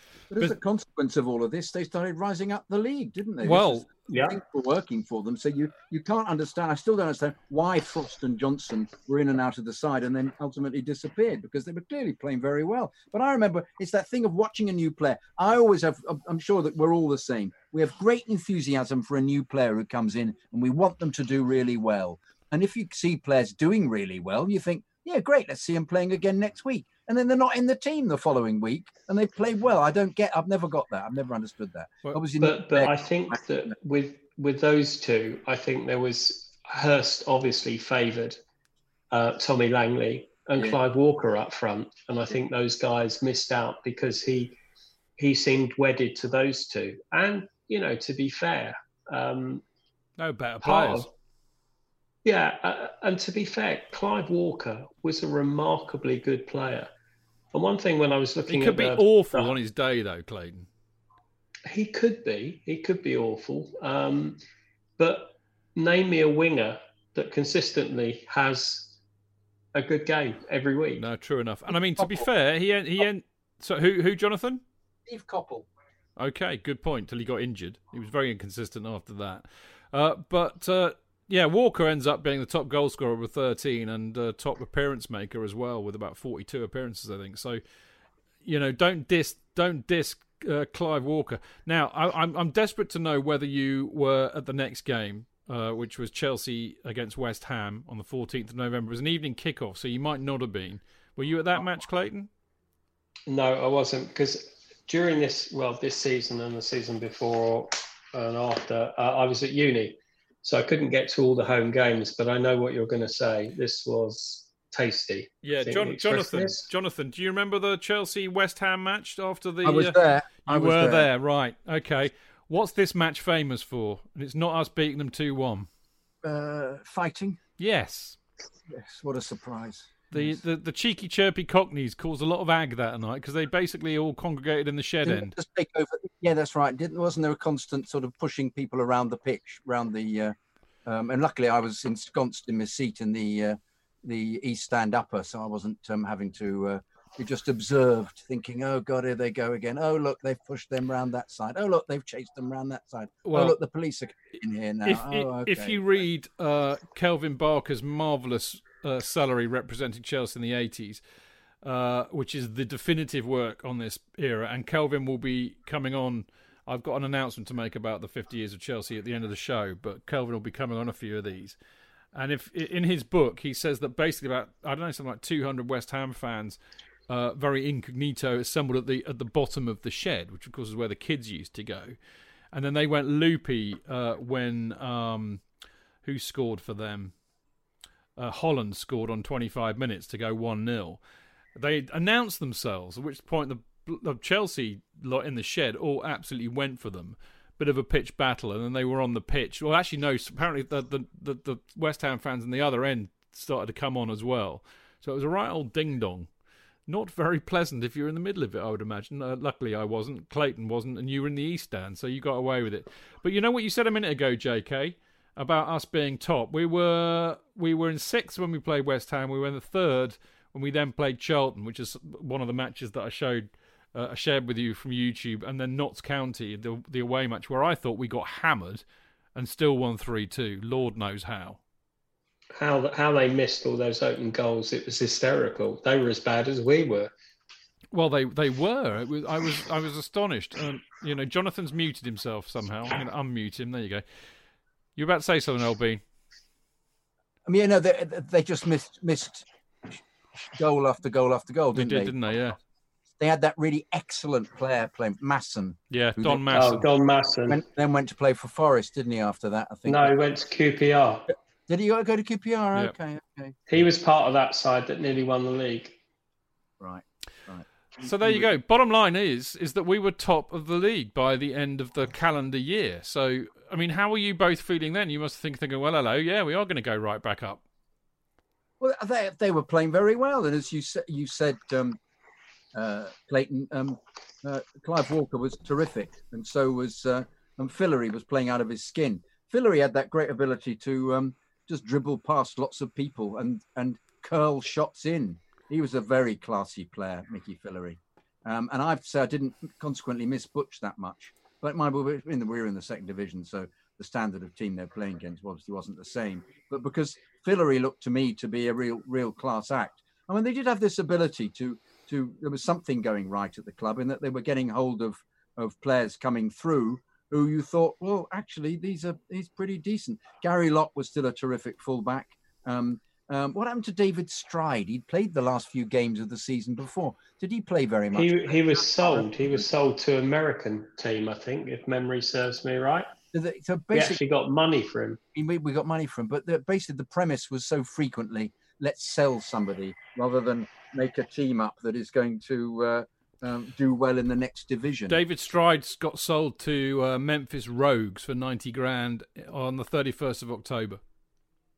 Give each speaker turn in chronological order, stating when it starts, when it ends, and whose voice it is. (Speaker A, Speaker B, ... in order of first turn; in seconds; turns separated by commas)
Speaker A: 0.3-33.4, Speaker B: 3.4-3.9, Speaker C: 4.1-4.4, Speaker C: 32.4-38.4, Speaker C: 39.1-44.6, Speaker C: 45.2-49.6, Speaker B: 50.2-51.1, Speaker C: 50.6-51.1, Speaker C: 52.2-56.9, Speaker C: 57.5-59.5, Speaker B: 58.5-60.7, Speaker C: 61.7-64.4, Speaker C: 65.0-68.9, Speaker C: 69.7-71.0, Speaker B: 71.0-74.6, Speaker A: 72.0-72.2, Speaker A: 75.1-75.7, Speaker B: 76.2-87.6, Speaker B: 88.4-102.3, Speaker C: 103.3-116.7, Speaker B: 115.4-125.7, Speaker A: 119.6-121.1, Speaker A: 126.2-127.4, Speaker B: 127.6-128.2, Speaker A: 128.7-130.4, Speaker B: 130.1-135.3, Speaker A: 135.1-155.8, Speaker B: 153.2-153.6, Speaker B: 154.8-161.0, Speaker B: 161.6-171.6, Speaker B: 172.1-182.0, Speaker B: 182.5-185.4, Speaker B: 186.0-187.1, Speaker B: 188.2-191.0, Speaker B: 191.6-206.3, Speaker B: 206.9-228.8, Speaker B: 229.3-231.6, Speaker C: 232.6-237.1, Speaker B: 237.9-244.0, Speaker B: 245.0-246.0, Speaker A: 247.5-252.2, Speaker B: 251.7-252.6, Speaker A: 253.2-256.8, Speaker B: 255.9-256.9, Speaker C: 256.5-257.6, Speaker A: 257.5-260.1, Speaker C: 259.9-261.3, Speaker A: 261.7-263.6, Speaker C: 263.7-266.0, Speaker A: 266.8-268.5, Speaker B: 268.0-277.6, Speaker A: 278.8-282.0, Speaker A: 282.7-329.6, Speaker C: 328.1-333.1, Speaker A: 333.3-334.2, Speaker C: 333.9-335.2, Speaker A: 335.3-345.2, Speaker B: 345.1-351.0